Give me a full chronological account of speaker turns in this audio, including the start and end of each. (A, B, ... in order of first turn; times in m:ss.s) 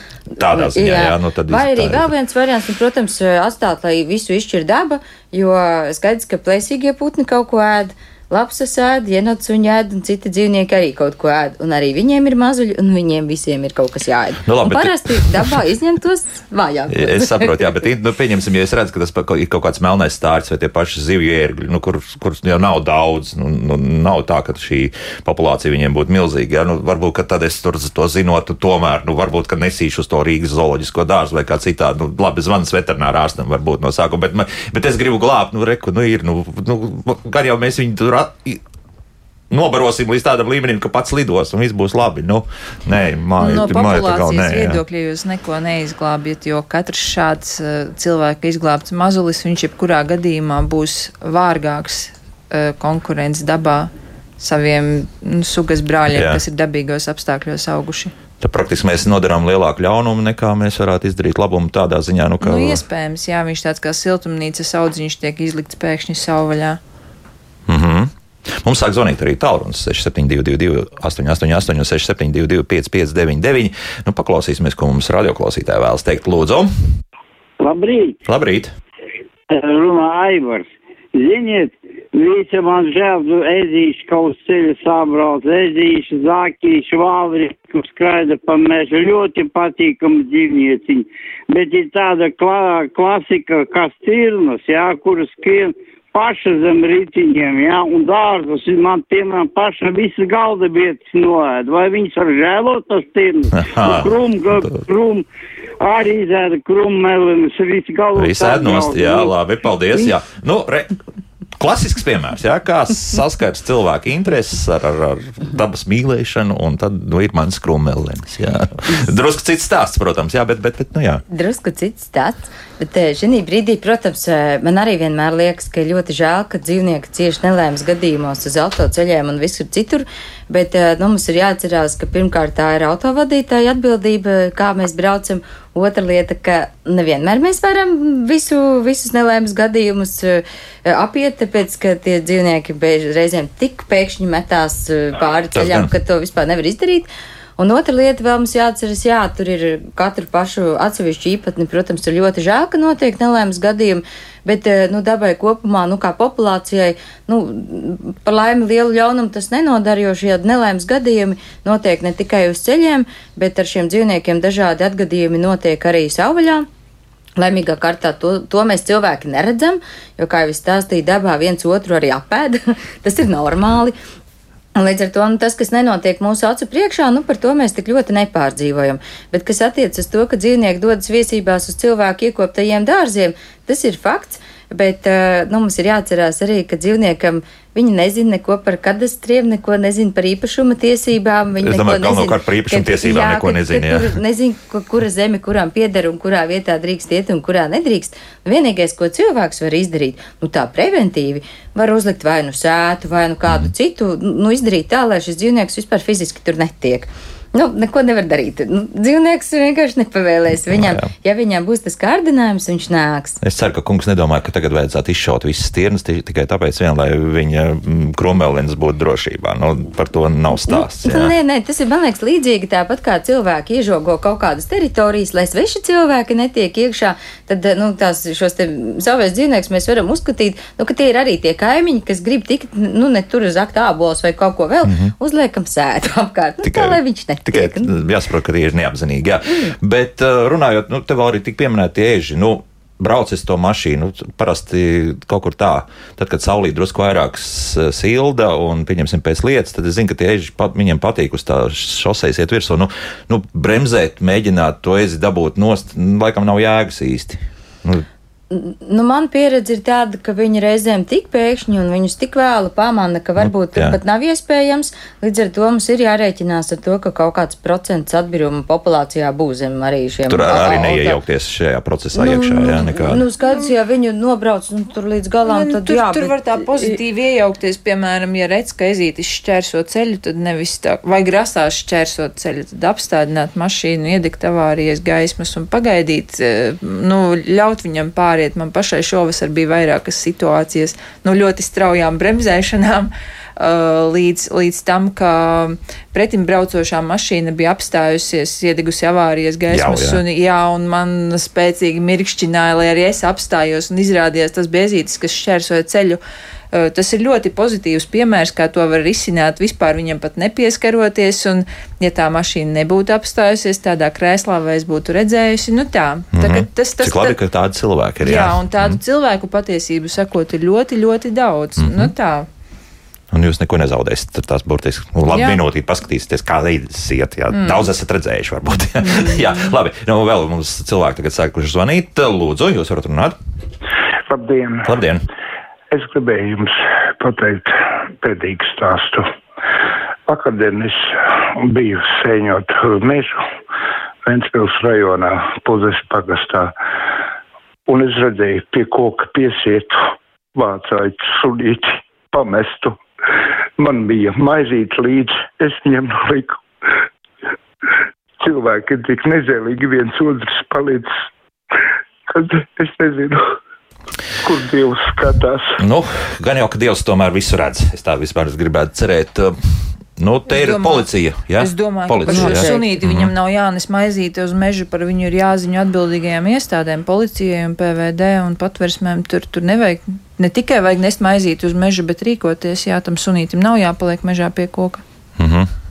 0:00.4-0:02.1 A
0:00.4-0:17.8 B
0:14.4-0:15.5 A
0:16.9-0:38.6 A
0:39.5-0:44.8 A
0:43.4-0:58.1 C
0:56.1-0:56.4 A
0:58.4-1:02.8 A
1:02.4-1:06.8 C
1:07.7-1:16.7 A
1:17.6-1:18.2 D
1:18.2-1:18.7 A
1:19.5-1:45.3 D
1:43.5-1:44.8 A
1:45.8-1:49.3 D
1:48.1-1:51.0 A
1:51.6-2:01.2 A
2:01.3-2:46.6 B
2:25.5-2:25.9 A
2:47.4-2:54.0 B
2:54.8-3:33.4 B
3:11.6-3:14.2 A
3:30.7-3:31.1 A
3:33.4-3:41.3 A
3:40.7-3:57.9 B
3:54.8-3:55.1 A
3:56.6-4:18.0 A
4:18.5-4:31.2 B
4:23.4-4:24.0 A
4:30.3-4:33.2 A
4:32.1-4:37.0 B
4:35.4-5:06.2 C
4:59.7-5:00.2 A
5:06.7-5:17.4 C
5:16.3-5:19.0 A
5:18.2-5:22.5 C
5:21.8-5:22.1 A
5:23.3-5:33.4 A
5:25.3-5:25.6 C
5:27.5-5:27.8 C
5:29.0-5:29.7 C
5:34.3-5:35.0 E
5:34.8-5:35.2 A
5:35.9-5:39.3 E
5:40.3-5:43.4 E
5:44.2-5:46.7 E
5:47.9-5:53.0 E
5:53.8-5:56.6 E
5:58.4-6:01.1 E
6:02.3-6:03.4 E
6:04.4-6:05.8 E
6:05.8-6:13.3 A
6:10.5-6:25.0 C
6:12.3-6:12.9 B
6:25.4-6:25.7 A